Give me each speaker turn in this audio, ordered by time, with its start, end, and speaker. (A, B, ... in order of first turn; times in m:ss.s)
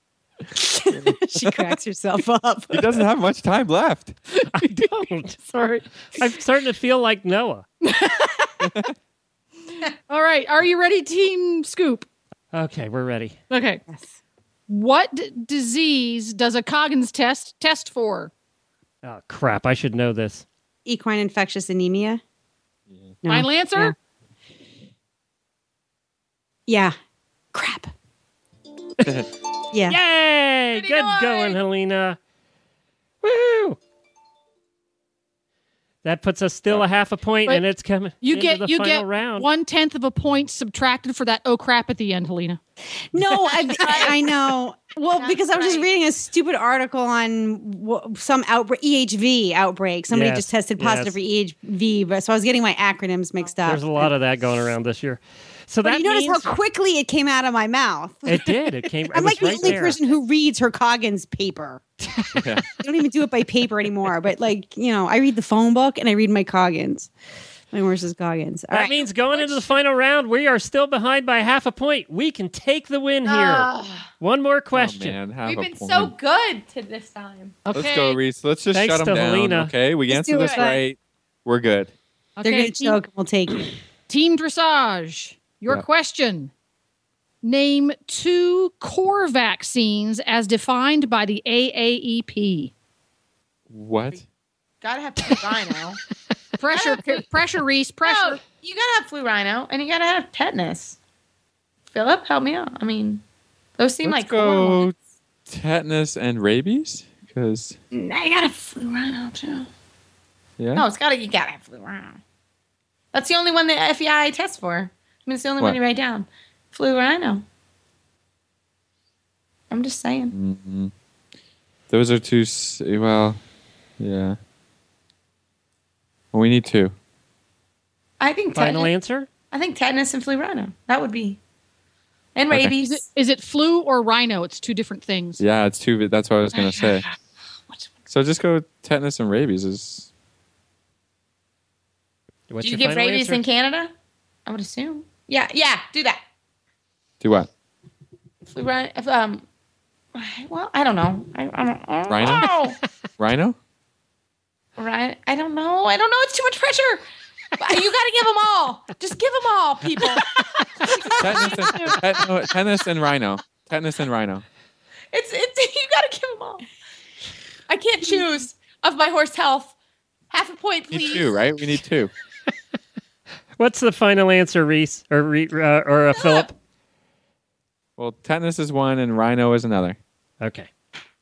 0:00.5-0:03.0 A
0:00.9-0:01.6 B
0:02.7-0:04.1 B
0:04.4-0:06.3 C
0:04.5-0:05.4 D
0:06.1-0:07.6 D
0:07.8-0:08.5 C
0:08.6-0:08.9 B
0:10.1-0:12.1 C
0:12.5-0:13.4 D
0:13.5-0:13.8 C
0:14.7-0:18.3 C
0:19.0-0:20.4 D
0:20.8-0:22.2 A
0:23.2-0:23.9 A
0:23.3-0:24.0 C
0:26.7-0:26.9 A
0:27.5-0:27.9 A
0:29.7-0:30.0 A
0:29.8-0:32.2 D
0:30.8-0:31.6 E
0:33.2-0:33.8 D
0:36.0-0:39.5 D
0:38.2-0:42.6 C
0:43.1-0:54.1 A
0:43.5-0:44.2 E
0:45.1-0:45.9 E
0:50.1-0:51.2 D
0:53.6-0:56.5 D
0:55.8-1:01.9 A
0:58.3-1:00.0 D
1:02.4-1:02.6 B
1:02.6-1:07.1 A
1:07.7-1:08.9 A
1:08.7-1:13.7 D
1:08.8-1:09.6 E
1:13.2-1:14.1 E
1:14.2-1:15.2 D
1:14.7-1:16.1 B
1:15.4-1:17.6 E
1:17.6-1:18.2 C
1:17.7-1:21.9 B
1:18.7-1:19.7 D
1:20.1-1:20.8 A
1:20.3-1:20.8 E
1:22.4-1:23.0 C
1:22.4-1:23.7 A
1:24.1-1:26.5 C
1:27.4-1:32.7 C
1:33.7-1:34.2 B
1:34.8-1:36.0 E
1:36.6-1:38.4 C
1:36.7-1:37.2 E
1:38.0-1:41.0 E
1:41.9-1:43.2 E
1:43.8-1:44.9 E
1:44.0-1:44.9 B
1:45.5-1:47.8 B
1:47.9-1:49.7 E
1:50.6-1:50.8 B
1:50.7-1:52.2 E
1:53.1-1:57.4 E
1:59.7-2:00.3 E
2:00.3-2:00.9 B
2:01.9-2:03.4 B
2:04.0-2:04.4 B
2:06.3-2:06.9 B
2:08.2-2:08.9 E
2:08.5-2:09.3 D
2:09.5-2:11.4 E
2:12.3-2:13.0 E
2:12.9-2:15.4 C
2:15.4-2:17.0 B
2:16.5-2:17.2 E
2:18.1-2:20.1 B
2:22.5-2:23.4 D
2:22.6-2:23.9 E
2:24.4-2:26.2 E
2:27.2-2:27.5 B
2:28.5-2:29.4 E
2:30.1-2:32.8 E
2:32.1-2:32.5 B
2:33.2-2:33.6 B
2:34.8-2:37.0 E
2:37.6-2:42.1 E
2:41.2-2:44.4 B
2:45.1-2:46.6 E
2:47.7-2:49.7 E
2:50.3-2:51.4 E
2:50.9-2:52.1 B
2:53.6-2:56.5 D
2:56.1-2:56.5 E
2:58.0-3:00.0 B
3:00.4-3:00.7 D